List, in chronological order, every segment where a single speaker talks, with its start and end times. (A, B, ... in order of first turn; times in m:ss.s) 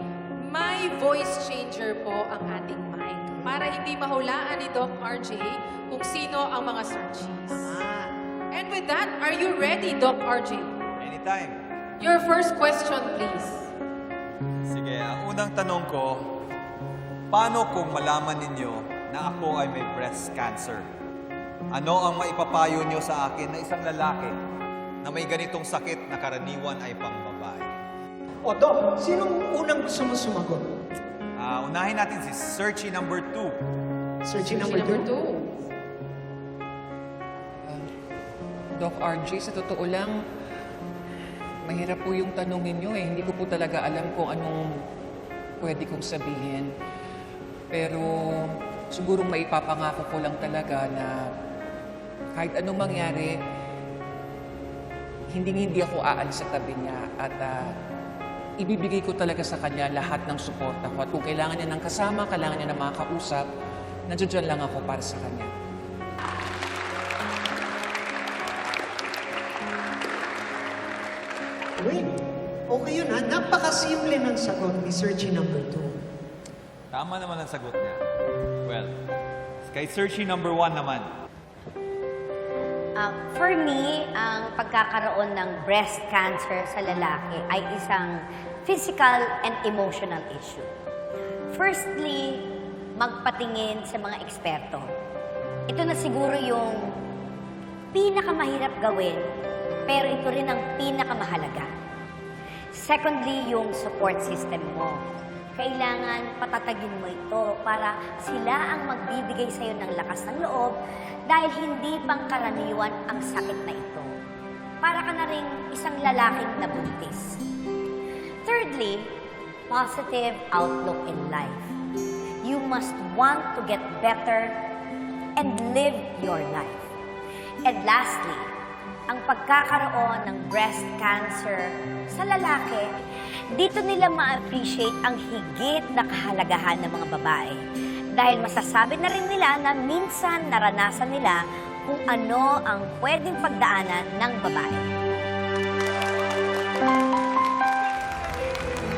0:00.4-0:07.8 A
0:07.5-0:08.1 B
0:08.5-0:10.7 A
0:11.0-0:11.6 C
0:12.0-0:13.7 A
0:14.7-0:16.3 C
0:17.3-0:20.9 C
0:21.7-0:24.4 C
0:25.0-0:27.7 C
0:28.4-0:30.6 B
0:31.4-0:33.6 C
0:34.2-0:35.1 B
0:34.4-0:35.5 A
0:38.8-0:40.2 D
0:41.7-0:44.6 D
0:45.6-0:46.7 D
0:47.7-0:51.2 D
0:52.4-0:53.4 D
0:55.3-0:57.7 D
0:58.6-1:03.5 D
1:04.1-1:05.5 D
1:11.8-1:12.1 B
1:12.7-1:15.9 B
1:16.9-1:18.0 C
1:18.6-1:18.9 C
1:19.6-1:21.1 C
1:23.0-1:30.7 E
1:31.5-1:32.4 E
1:33.0-1:34.9 E
1:35.7-1:36.9 E
1:37.9-1:39.2 E
1:39.9-1:41.7 E
1:42.8-1:45.0 E
1:45.6-1:50.8 E
1:51.3-1:54.1 E
1:54.8-1:57.4 E
1:58.4-1:59.1 E
1:59.7-2:01.7 E
2:02.4-2:04.6 E
2:05.4-2:06.9 E
2:07.7-2:08.4 E
2:09.1-2:12.9 E
2:13.5-2:17.6 E
2:18.2-2:24.9 E